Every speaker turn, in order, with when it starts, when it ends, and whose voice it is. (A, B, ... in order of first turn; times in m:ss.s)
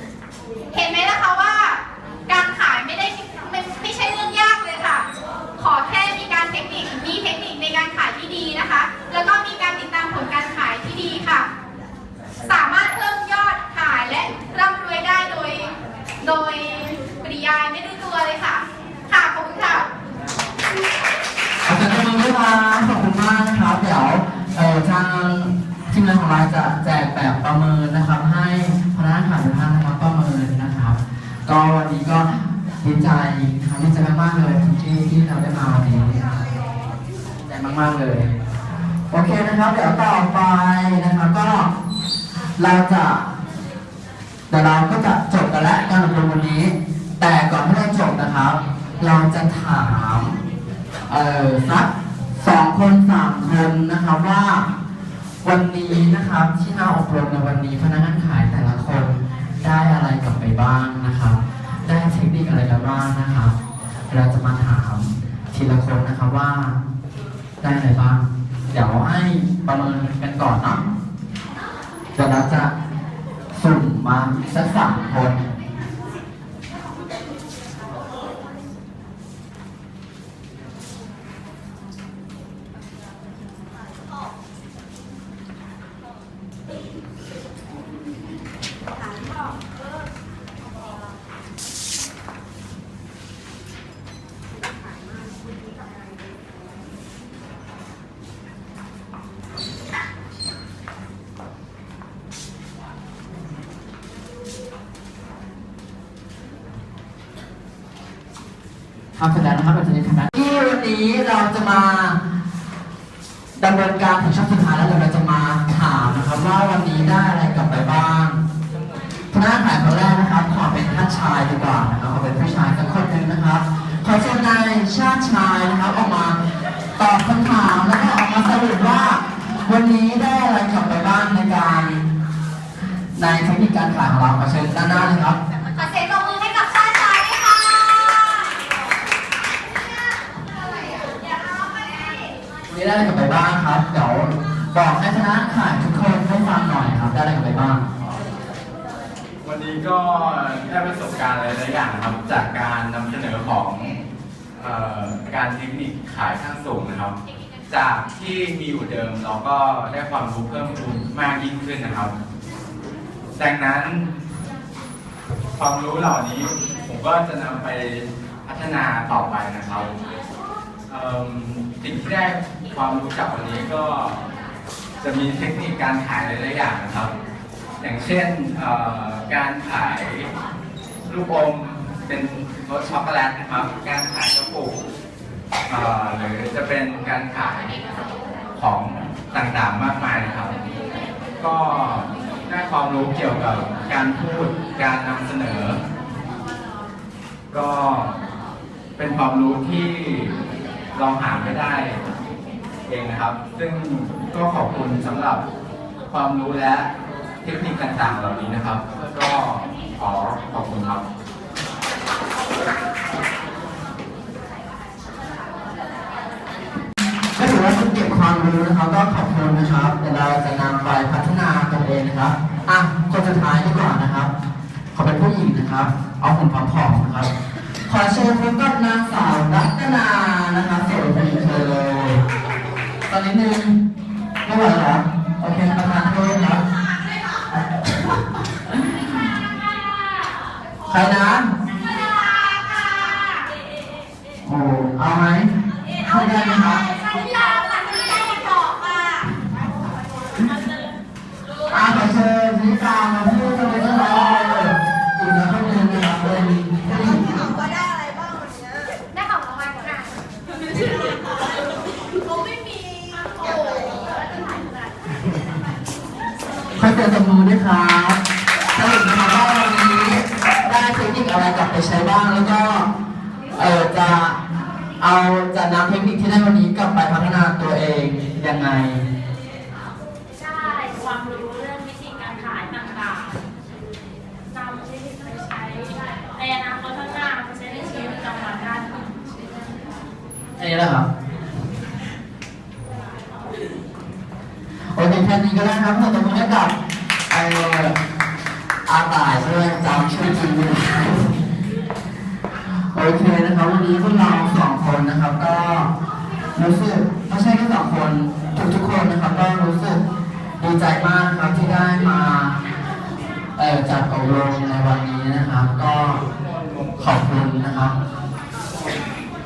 0:00.7-0:11.5 A
0:12.4-0:19.8 A
0:21.6-0:36.2 B
0:37.4-0:38.4 B
0:39.1-0:41.7 B
0:42.6-0:43.2 B
0:44.5-0:50.4 B
0:51.1-0:54.7 B
0:55.4-1:03.6 B
1:04.1-1:06.8 B
1:07.6-1:10.8 B
1:12.1-1:12.7 B
1:13.5-1:15.4 B
1:49.2-1:52.2 B
1:53.6-1:58.4 B
1:59.3-2:06.4 B
2:07.0-2:12.0 B
2:13.2-2:15.4 B
2:15.7-2:18.4 C
2:22.7-2:27.8 B
2:28.0-2:28.3 D
2:29.4-2:34.0 D
2:34.6-2:37.2 D
2:37.7-2:42.2 D
2:43.4-2:44.1 D
2:45.5-2:49.9 D
2:50.9-2:54.2 D
2:55.0-2:57.1 D
2:57.8-3:00.3 D
3:01.0-3:04.8 D
3:05.7-3:07.8 D
3:08.6-3:10.6 D
3:11.4-3:15.8 D
3:17.5-3:18.2 D
3:19.0-3:20.4 D
3:20.9-3:22.0 D
3:22.9-3:25.4 D
3:26.1-3:26.9 D
3:27.4-3:31.0 D
3:37.4-3:44.3 B
3:44.9-3:47.3 B
3:47.9-3:52.2 B
3:53.1-3:53.8 B
3:54.4-3:56.6 B
3:58.7-3:59.1 B
4:00.9-4:01.5 B
4:02.6-4:03.2 A
4:04.4-4:05.5 B
4:06.0-4:06.8 B
4:06.8-4:09.2 A
4:11.7-4:17.4 B
4:16.9-4:18.9 E
4:19.1-4:20.1 C
4:23.4-4:24.2 E
4:26.8-4:28.2 B
4:28.7-4:32.9 B
4:33.5-4:34.4 B
4:35.0-4:39.0 B
4:40.8-4:43.3 A
4:44.5-4:49.1 A
4:50.6-4:51.1 B
4:54.9-4:56.8 B
4:57.3-4:58.0 B
4:58.8-5:01.4 B
5:02.9-5:05.9 B
5:06.6-5:10.0 B
5:10.6-5:12.6 B
5:13.6-5:16.2 B
5:16.9-5:18.0 B